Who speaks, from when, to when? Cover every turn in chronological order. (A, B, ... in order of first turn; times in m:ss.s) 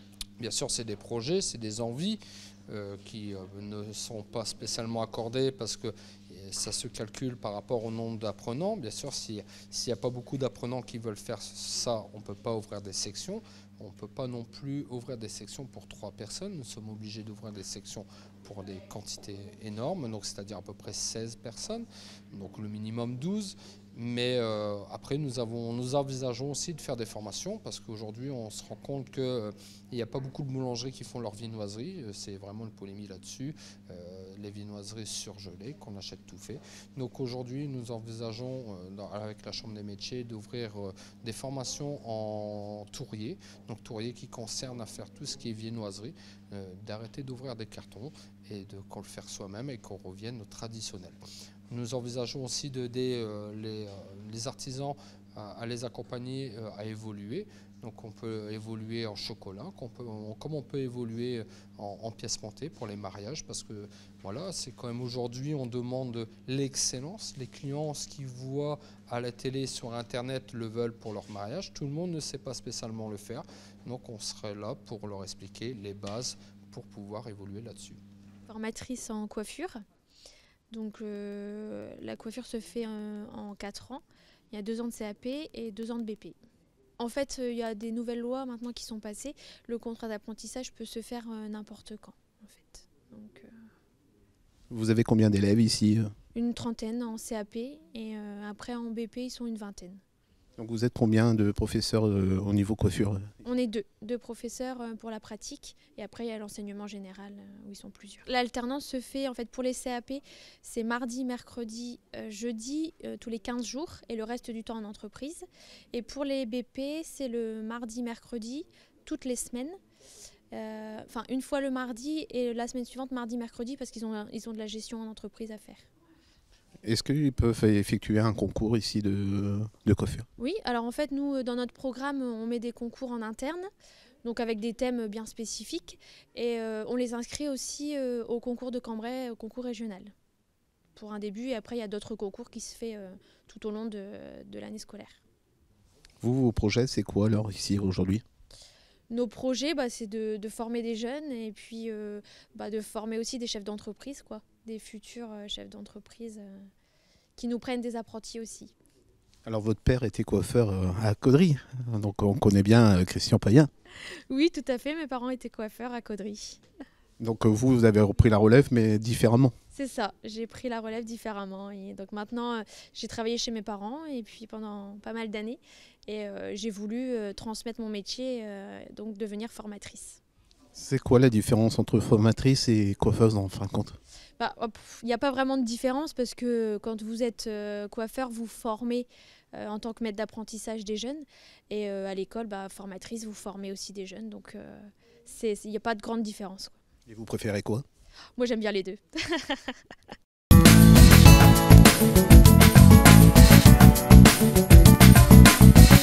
0:00.4-0:51.2 A
0:51.7-1:18.0 A
1:18.5-1:19.8 B
1:20.7-1:26.4 B
1:27.0-1:33.5 B
1:34.7-1:36.1 C
1:36.3-1:40.0 B
1:40.6-1:43.2 C
1:43.4-1:59.8 B
2:00.5-2:05.8 B
2:06.8-2:10.2 C
2:10.4-2:13.7 B
2:14.2-2:20.1 B
2:21.0-2:25.2 B
2:26.2-2:28.2 C
2:29.1-2:36.7 B
2:37.4-2:38.7 B
2:39.5-2:43.7 C
2:44.3-2:46.6 B
2:47.2-2:49.5 C
2:49.7-3:00.2 B
3:00.8-3:04.0 C
3:04.4-3:16.8 B
3:17.1-3:17.8 C
3:18.4-3:19.9 B